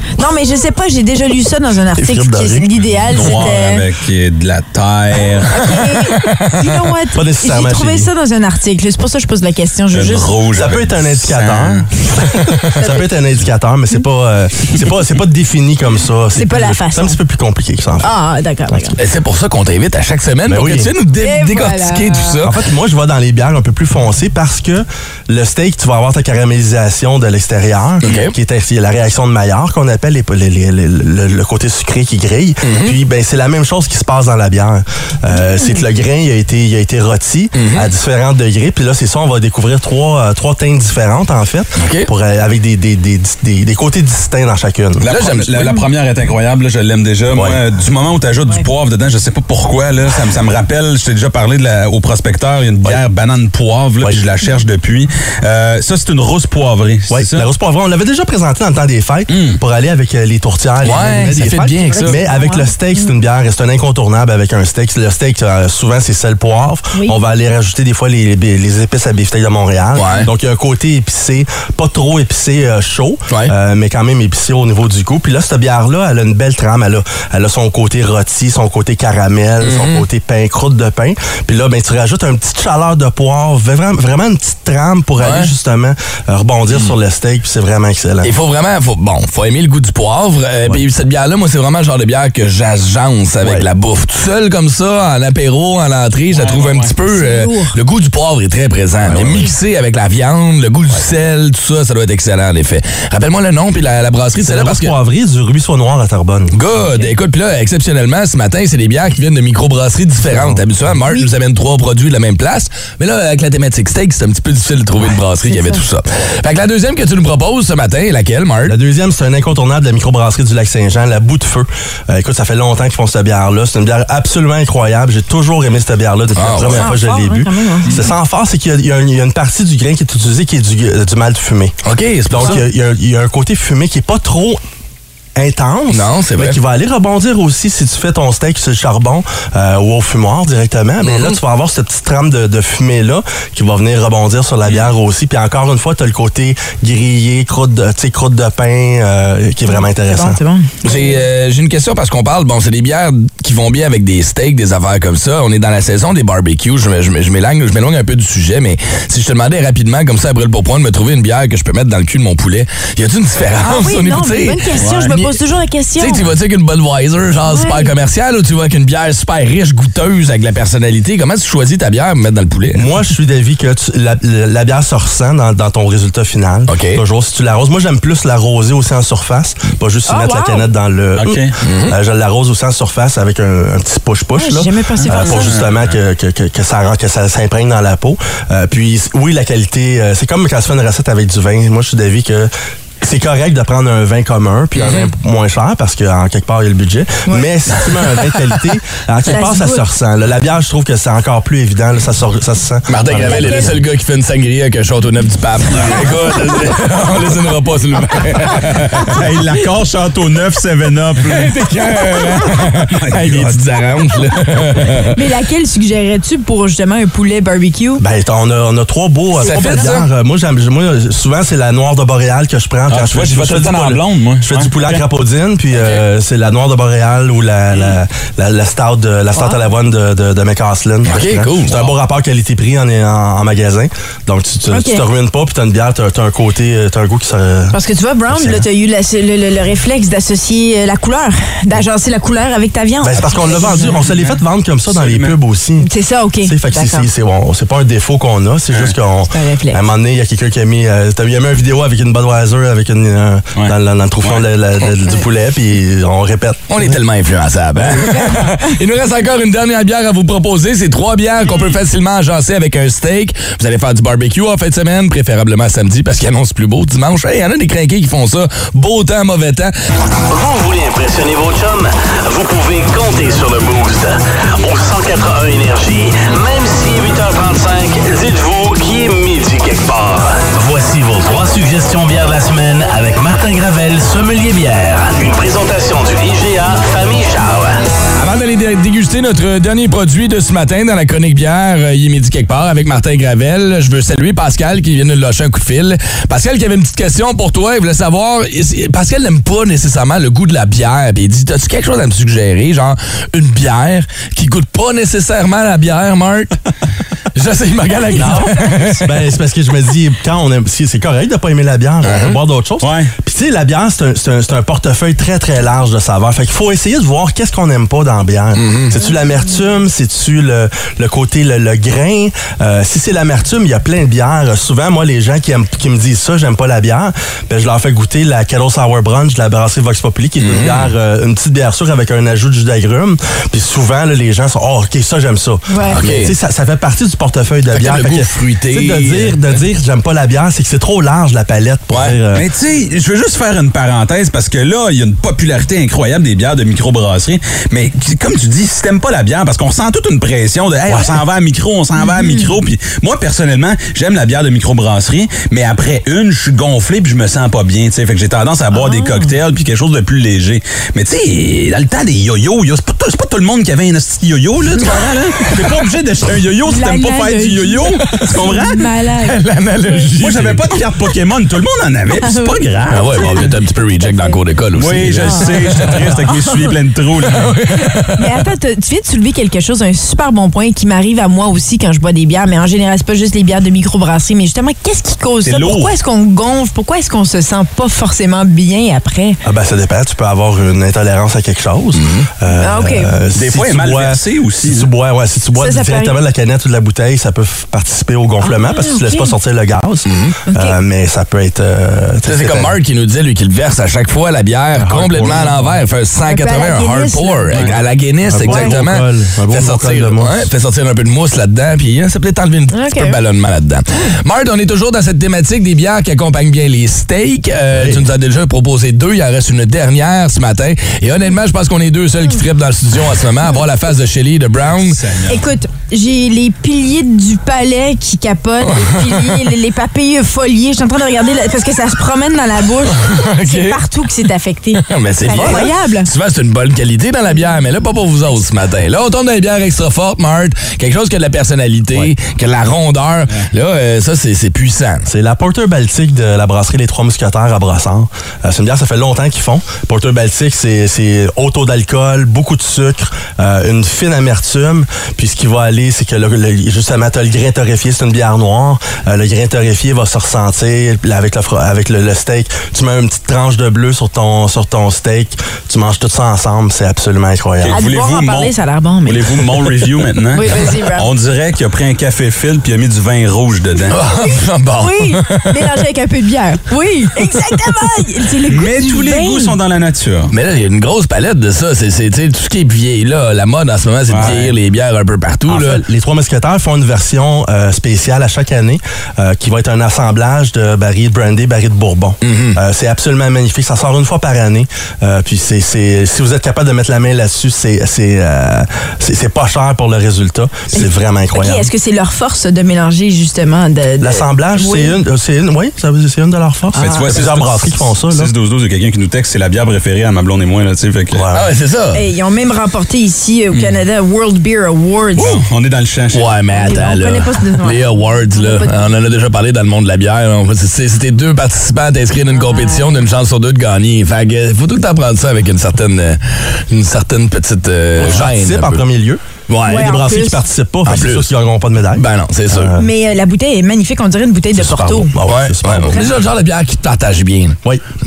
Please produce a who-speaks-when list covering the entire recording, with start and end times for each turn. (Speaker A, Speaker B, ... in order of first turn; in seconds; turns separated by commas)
Speaker A: 0.2-3.8, Speaker B: 1.9-3.4, Speaker C: 3.1-5.7, Speaker A: 5.5-10.3, Speaker B: 7.1-8.1, Speaker C: 9.9-11.9, Speaker B: 10.5-18.1, Speaker A: 12.8-13.1, Speaker A: 16.4-17.2, Speaker A: 18.0-18.9, Speaker D: 19.0-22.6, Speaker B: 20.5-20.9, Speaker A: 21.2-22.4, Speaker B: 22.4-45.1, Speaker D: 28.0-28.4, Speaker D: 32.6-33.0, Speaker A: 35.3-35.8, Speaker D: 37.5-37.9, Speaker D: 41.8-42.1, Speaker C: 45.0-57.5, Speaker D: 45.0-45.9, Speaker B: 47.3-47.6, Speaker B: 57.1-88.3, Speaker C: 59.3-59.6, Speaker D: 60.8-62.2, Speaker A: 61.9-63.1, Speaker A: 66.9-67.2, Speaker D: 70.0-70.3, Speaker D: 79.6-80.1, Speaker D: 85.2-85.5, Speaker D: 88.2-105.0, Speaker B: 93.4-93.7, Speaker C: 96.3-96.9, Speaker A: 97.1-97.8, Speaker B: 99.0-99.5, Speaker B: 104.3-106.6, Speaker D: 106.5-118.8, Speaker B: 110.3-110.6, Speaker A: 115.4-115.8, Speaker B: 118.7-131.8, Speaker D: 126.3-127.0, Speaker A: 126.7-127.9, Speaker D: 131.8-132.7, Speaker B: 132.3-134.6, Speaker B: 135.4-150.4, Speaker D: 135.9-136.6, Speaker D: 141.1-141.3, Speaker A: 149.7-150.7, Speaker D: 150.8-165.3, Speaker A: 163.6-166.3, Speaker C: 164.8-165.2, Speaker D: 166.0-172.8, Speaker A: 167.5-167.9, Speaker B: 172.7-192.5, Speaker D: 176.7-177.0, Speaker A: 180.1-180.7, Speaker C: 181.2-181.5, Speaker D: 181.6-182.0, Speaker A: 184.3-185.6, Speaker C: 185.3-186.0, Speaker B: 193.0-203.8, Speaker D: 194.8-195.1, Speaker A: 199.3-199.9, Speaker D: 202.9-209.2, Speaker A: 203.1-203.7, Speaker C: 205.7-206.1, Speaker C: 209.1-213.6, Speaker D: 211.3-215.2, Speaker A: 215.1-218.0, Speaker B: 218.0-237.8, Speaker D: 219.3-220.1, Speaker A: 219.4-219.8, Speaker C: 222.9-225.0, Speaker D: 225.7-226.0, Speaker C: 227.7-228.0, Speaker A: 229.3-229.6, Speaker D: 231.1-231.8, Speaker A: 234.7-235.1, Speaker A: 237.7-244.1, Speaker B: 238.3-238.7, Speaker B: 243.0-245.9, Speaker C: 243.7-245.4, Speaker A: 245.8-247.1, Speaker B: 246.4-257.0, Speaker C: 248.7-249.0, Speaker A: 249.3-249.8, Speaker C: 253.6-254.5, Speaker D: 256.7-269.7, Speaker A: 257.9-258.6, Speaker E: 270.3-287.8, Speaker D: 288.2-306.6, Speaker D: 307.3-309.2, Speaker B: 308.1-342.4, Speaker A: 308.2-308.5, Speaker D: 312.0-312.4, Speaker C: 312.8-313.1, Speaker D: 318.6-319.0, Speaker D: 330.4-330.9, Speaker A: 335.7-336.0, Speaker D: 336.0-336.3, Speaker D: 337.7-339.6, Speaker D: 341.9-342.2, Speaker C: 342.3-368.9, Speaker A: 352.0-352.5, Speaker A: 358.7-359.4, Speaker A: 366.7-369.4, Speaker D: 368.2-368.5, Speaker D: 369.2-370.7, Speaker C: 370.2-373.5, Speaker A: 372.1-372.6, Speaker D: 372.9-376.2, Speaker A: 373.1-373.4, Speaker A: 374.0-374.4, Speaker C: 374.8-377.5, Speaker A: 375.2-376.6, Speaker D: 377.2-378.4, Speaker A: 378.1-389.4, Speaker C: 385.4-385.9, Speaker B: 389.4-402.8, Speaker D: 392.0-392.3, Speaker A: 392.5-393.2, Speaker C: 393.4-394.9, Speaker A: 395.6-396.2, Speaker A: 398.4-399.4, Speaker D: 400.1-400.4, Speaker A: 400.5-400.8, Speaker D: 402.3-425.0, Speaker B: 404.8-405.8, Speaker A: 406.2-407.5, Speaker B: 408.3-410.5, Speaker A: 408.4-408.7, Speaker A: 412.7-413.2, Speaker B: 417.8-418.1, Speaker C: 424.7-425.4, Speaker A: 425.3-436.1, Speaker D: 428.6-429.5, Speaker D: 432.9-433.8, Speaker D: 434.8-445.1, Speaker B: 445.1-467.8, Speaker C: 467.6-468.5, Speaker A: 467.7-469.6, Speaker C: 469.0-474.0, Speaker A: 470.3-471.1, Speaker D: 473.9-475.8, Speaker A: 474.1-479.6, Speaker C: 478.4-480.3, Speaker D: 480.3-485.8, Speaker C: 484.1-484.6, Speaker B: 485.5-501.7, Speaker D: 492.2-492.6, Speaker A: 500.7-505.0, Speaker B: 504.0-508.3, Speaker A: 506.7-507.1, Speaker C: 506.8-511.3, Speaker B: 511.1-511.5, Speaker D: 511.3-512.0, Speaker A: 511.9-515.4, Speaker C: 515.2-516.3, Speaker D: 516.1-528.8, Speaker A: 516.6-518.8, Speaker A: 522.3-523.0, Speaker B: 528.0-532.9, Speaker D: 529.5-530.0, Speaker A: 529.7-530.4, Speaker D: 530.9-531.3, Speaker D: 531.9-532.7, Speaker A: 532.8-535.1, Speaker B: 534.5-536.1, Speaker D: 535.2-537.6